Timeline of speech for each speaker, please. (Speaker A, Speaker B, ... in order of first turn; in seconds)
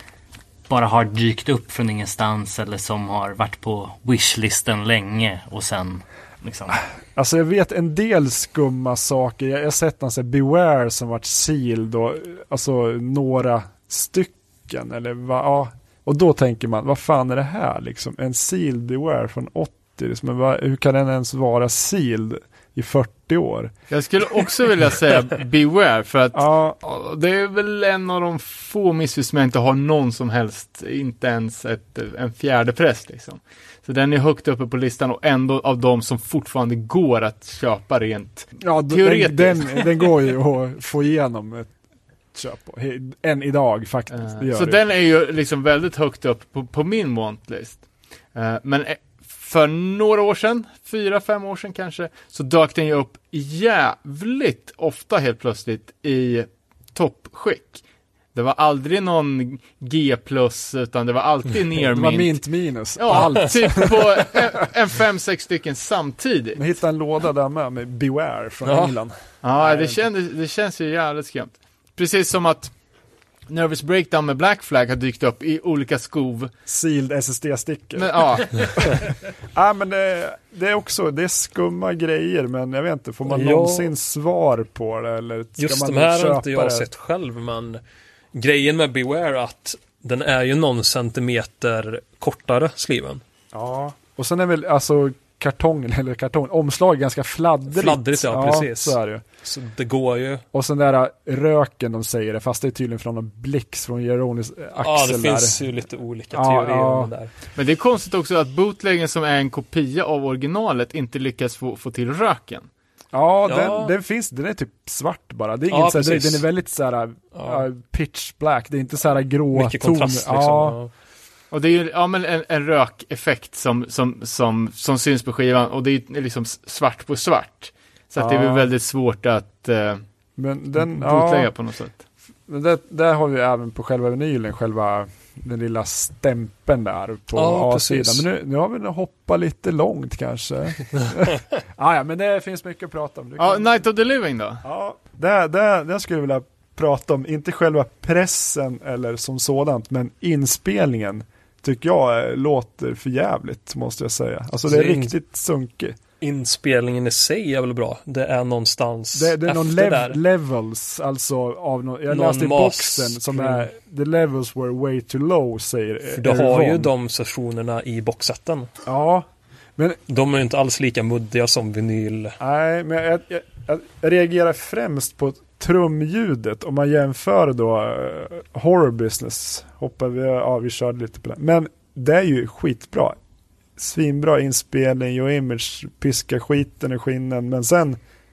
Speaker A: 0.7-6.8, 69.6-69.9
Speaker B: 6.8-23.7, 26.3-26.8, 38.6-41.7, 42.3-44.8, 61.9-64.4, 66.5-69.1, 76.7-86.9, 93.5-99.2, 100.5-105.6, 106.3-107.1, 113.1-120.8, 128.2-128.7, 130.4-131.5, 132.5-143.8, 144.6-156.0, 159.1-166.9, 168.8-170.0, 172.4-183.2, 183.8-188.0
Speaker C: 23.9-40.1, 44.1-57.8, 58.3-62.4, 62.9-66.6, 69.4-72.7, 73.5-76.5, 77.9-79.0, 107.5-112.7, 121.5-130.0, 130.8-132.0, 143.4-144.6
Speaker D: 63.1-64.0, 68.6-69.0, 83.2-83.9, 85.6-87.8, 88.3-93.2, 97.7-100.4, 104.8-107.3, 113.5-113.9, 115.7-116.5, 117.3-117.6, 119.5-120.9, 137.3-138.2, 154.7-155.1, 156.2-160.2, 162.1-163.7, 166.1-168.7, 170.1-172.3